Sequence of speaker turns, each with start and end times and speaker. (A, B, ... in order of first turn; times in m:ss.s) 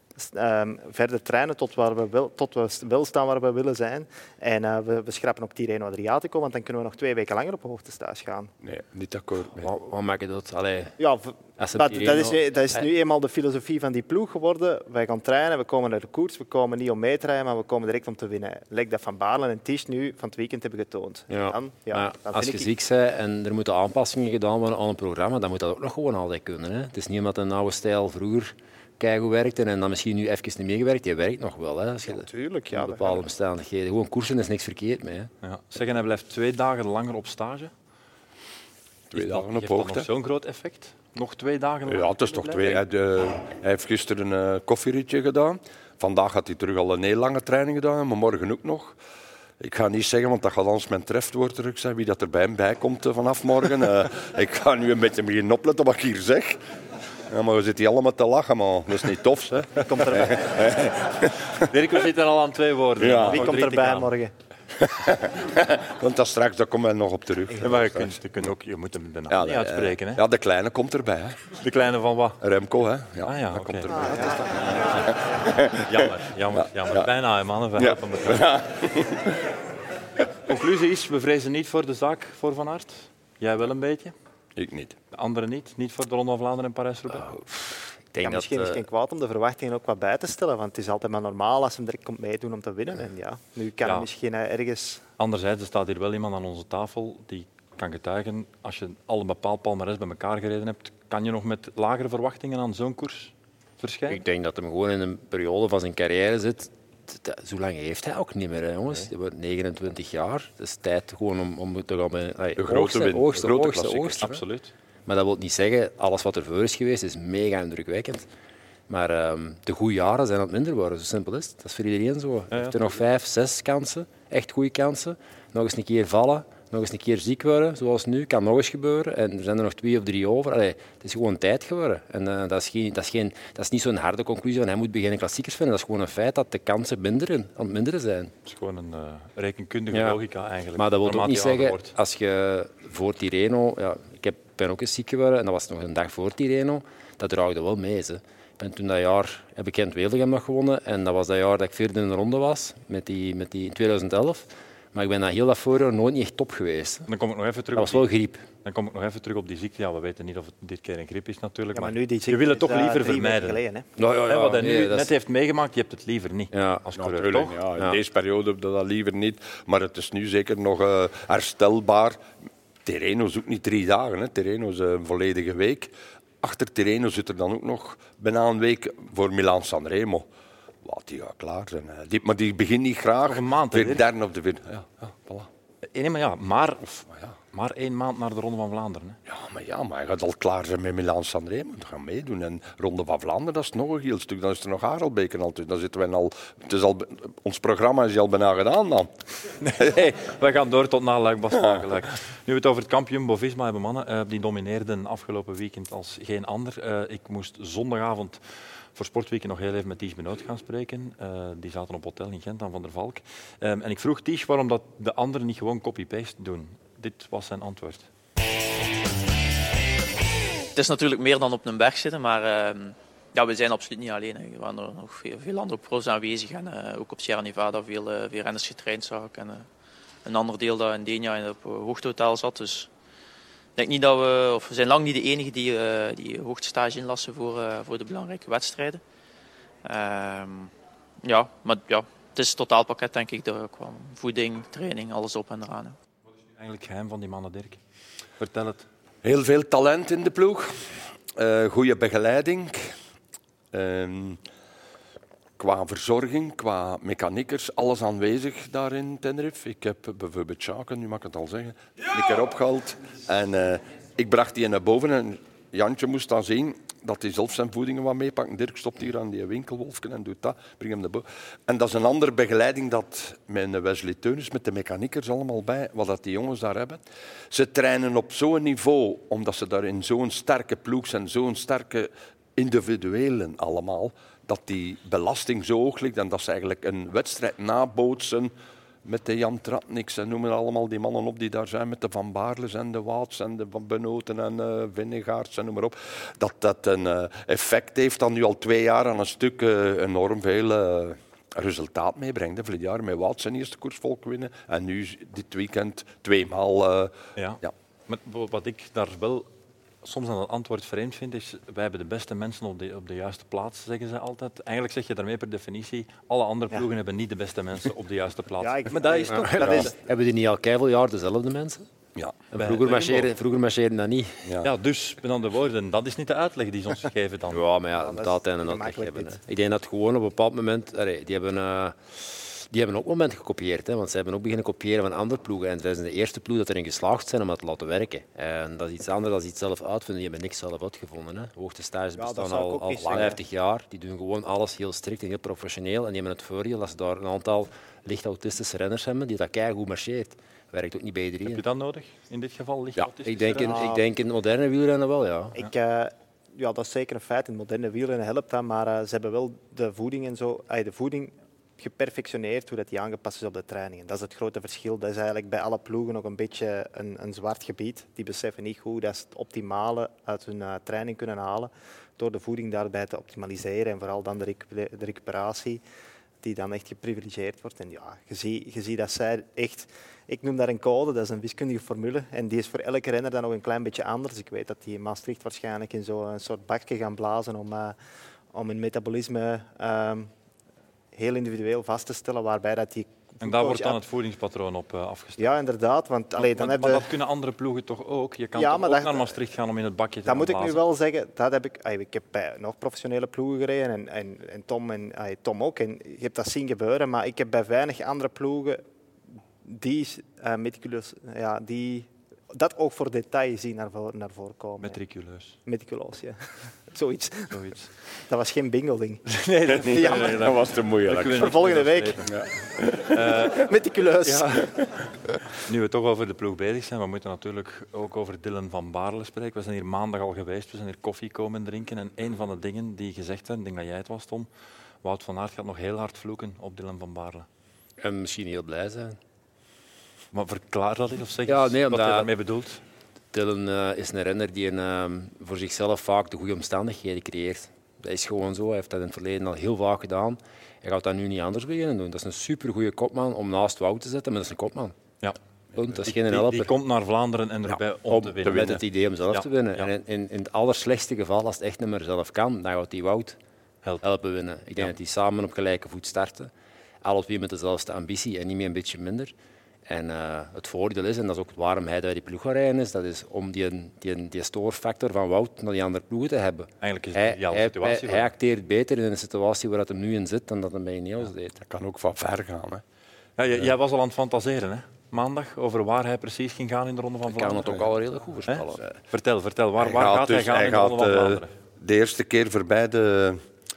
0:00.2-0:08.5 A
0:08.6-0:09.7 B
0:09.6-0:11.0 C
0:11.0-0:22.7 A
0:11.6-0:12.9 C
0:21.3-0:35.3 C
0:32.1-0:33.2 A
0:35.4-0:37.7 D
0:39.1-0:40.1 B
0:39.1-0:42.8 D
0:41.9-0:49.0 B
0:49.6-0:56.6 B
0:57.3-1:01.6 B
0:59.8-1:00.8 A
1:01.6-1:04.1 D
1:03.0-1:03.6 B
1:03.3-1:04.3 A
1:04.8-1:08.4 B
1:07.6-1:10.2 D
1:09.3-1:11.5 B
1:11.6-1:12.4 D
1:12.4-1:16.1 B
1:13.2-1:14.1 D
1:13.9-1:15.0 A
1:15.7-1:18.5 D
1:16.6-1:17.1 B
1:17.8-1:19.4 B
1:20.4-1:24.1 D
1:24.6-1:25.0 B
1:25.1-1:27.3 D
1:27.3-1:28.8 C
1:28.2-1:35.0 A
1:35.2-1:44.2 D
1:44.1-1:54.4 C
1:52.6-1:54.2 B
1:54.2-1:54.7 D
1:55.1-1:58.3 C
1:58.9-2:18.4 C
2:02.5-2:02.8 D
2:18.5-2:21.9 D
2:19.9-2:20.2 C
2:20.8-2:37.1 C
2:37.1-2:38.1 D
2:37.7-2:38.5 C
2:38.6-2:43.6 D
2:41.8-2:43.9 A
2:44.0-2:45.1 C
2:44.3-2:47.6 D
2:46.5-2:46.8 C
2:47.0-2:52.2 B
2:52.8-3:00.3 B
3:00.8-3:05.5 B
3:03.3-3:04.0 D
3:05.9-3:09.2 D
3:09.3-3:19.1 B
3:19.6-3:28.4 D
3:29.0-3:38.1 D
3:40.8-3:49.7 E
3:50.2-3:52.9 E
3:53.8-3:59.0 E
3:59.8-4:00.7 E
4:01.2-4:06.0 E
4:06.6-4:07.8 D
4:08.4-4:08.9 D
4:09.2-4:13.0 B
4:13.7-4:14.4 B
4:15.6-4:48.5 B
4:49.0-5:07.7 B
5:07.4-5:09.5 D
5:10.0-5:19.9 D
5:18.6-5:19.9 A
5:19.2-5:21.9 C
5:22.5-5:24.5 C
5:22.5-5:23.3 D
5:24.6-5:27.6 D
5:27.5-5:51.6 C
5:28.0-5:29.4 A
5:42.2-5:43.4 A
5:51.4-5:53.9 D
5:53.2-5:55.6 C
5:53.6-5:54.0 A
5:55.6-6:15.8 A
6:16.4-6:28.0 A
6:28.5-6:30.3 A
6:31.1-6:34.0 A
6:33.4-6:35.5 D
6:35.4-6:37.1 A
6:36.4-6:40.8 D
6:38.6-6:39.4 A
6:40.3-6:48.8 A
6:49.6-6:55.0 A
6:54.8-6:55.6 D
6:55.7-6:56.4 A
6:56.9-6:57.6 A
6:57.5-6:57.9 D
6:58.3-6:59.3 A
6:59.3-7:02.4 D
6:59.8-7:01.5 B
6:59.9-7:00.6 A
7:01.3-7:02.3 A
7:02.3-7:03.2 B
7:02.9-7:04.7 D
7:03.5-7:04.7 A
7:05.5-7:14.5 D
7:15.0-7:17.5 D
7:18.0-7:19.2 C
7:20.3-7:22.8 D
7:21.5-7:22.3 C
7:23.3-7:35.0 C
7:35.8-7:36.7 C
7:35.9-7:39.9 D
7:38.1-7:43.4 C
7:44.0-7:46.5 C
7:47.0-7:49.3 C
7:49.9-8:01.6 C
7:56.8-7:58.3 D
8:01.6-8:02.8 B
8:03.4-8:07.8 D
8:07.3-8:08.8 C
8:08.5-8:11.5 D
8:09.8-8:13.4 B